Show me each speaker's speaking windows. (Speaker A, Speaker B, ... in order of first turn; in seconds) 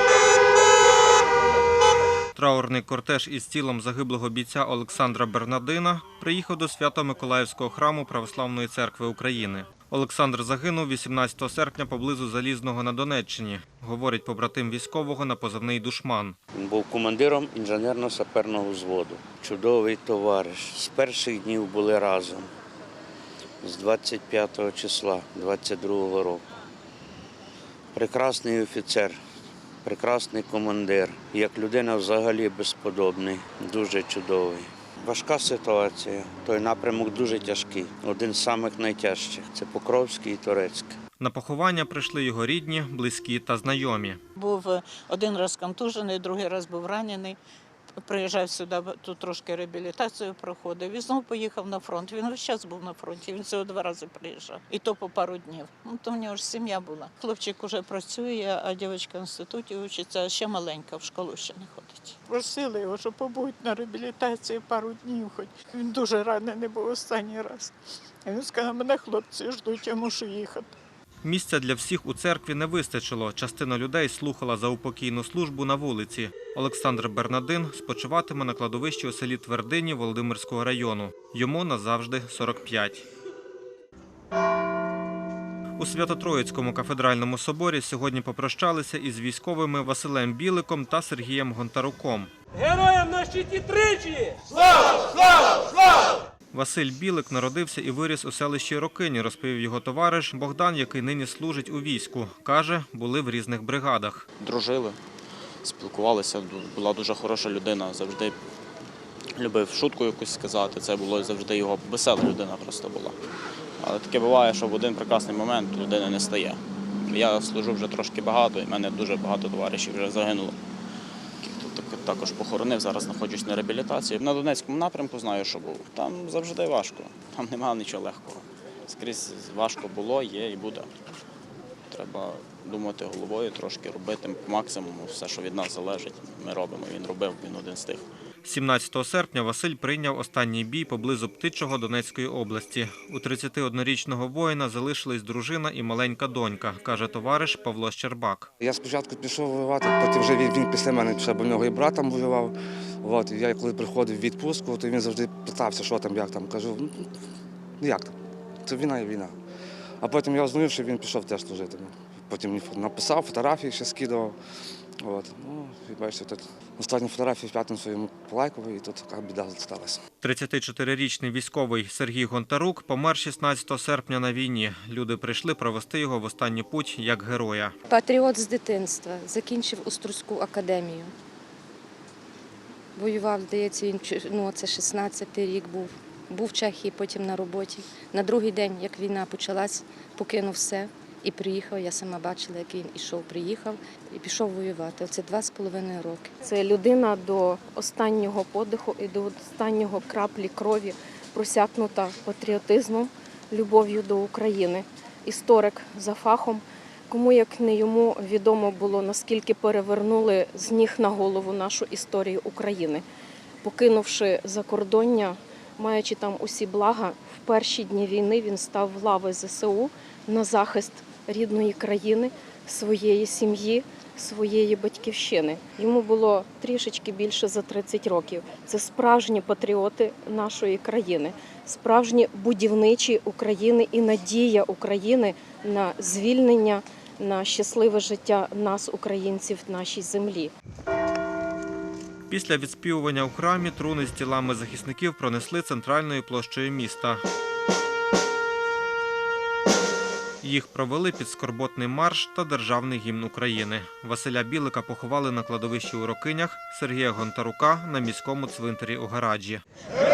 Speaker A: 2.3-16.4, 41.2-44.2, 71.2-83.0, 85.8-92.3, 96.5-104.2, 138.4-148.5, 170.2-177.7, 242.3-247.2, 250.4-259.6
Speaker B: 16.5-22.5, 23.6-26.4, 27.9-29.2, 29.8-41.0
Speaker C: 44.4-47.4, 48.0-67.7, 68.2-70.7
Speaker D: 104.4-105.0, 105.6-108.3, 109.4-113.2, 113.8-120.5, 121.4-130.9, 131.9-138.1
Speaker E: 148.6-157.1, 157.8-158.1, 158.6-159.3, 160.0-164.3, 165.0-170.0
Speaker F: 177.9-181.1, 182.9-196.3
Speaker G: 196.4-213.0, 213.6-240.5